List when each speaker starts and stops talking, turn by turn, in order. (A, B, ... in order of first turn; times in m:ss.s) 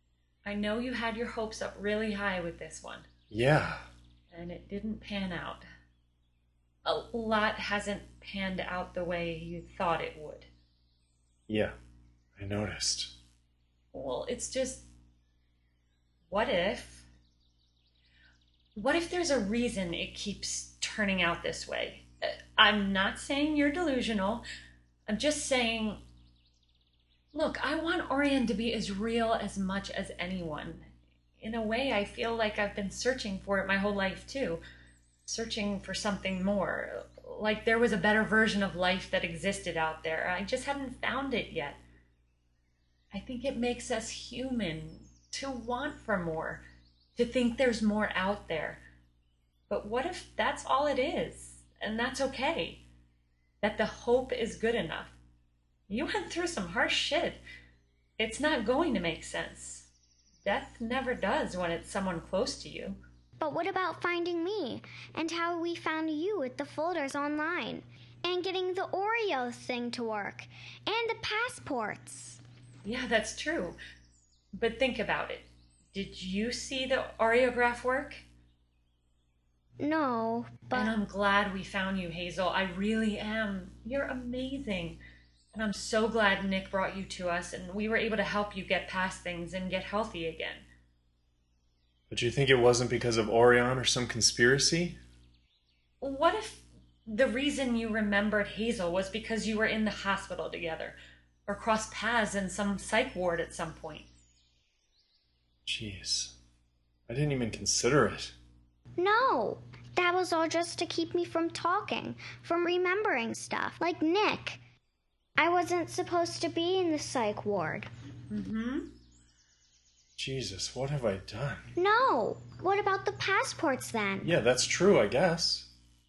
0:00.4-0:03.1 A
0:03.3-0:03.8 B
0:04.3-0:05.6 A
0:06.8-0:10.5 A
0:11.5-0:11.7 B
0:12.4-0:13.1 B
0:13.9-0:14.8 A
0:16.3-0:17.0 A
0:18.7-0:24.4 A
0:25.1-0:26.0 A
0:27.3-0:30.8 A
0:31.4-0:34.6 A
0:35.2-0:41.8 A
0:43.1-0:46.6 A
0:47.1-0:48.8 A
0:49.7-0:52.8 A
0:53.6-0:55.2 A
0:55.9-0:57.4 A
0:58.2-0:59.9 A
1:00.4-1:03.0 A
1:03.4-1:12.4 C
1:12.8-1:13.8 A
1:14.5-1:18.2 A
1:19.8-1:21.0 C
1:20.7-1:25.0 A
1:25.5-1:30.6 A
1:32.1-1:35.0 B
1:36.0-1:44.1 A
1:45.6-1:46.3 B
1:47.1-1:48.4 B
1:49.0-1:54.6 C
1:55.4-1:57.9 C
1:58.3-1:58.9 A
2:00.2-2:01.7 B
2:01.8-2:04.3 C
2:04.2-2:05.7 B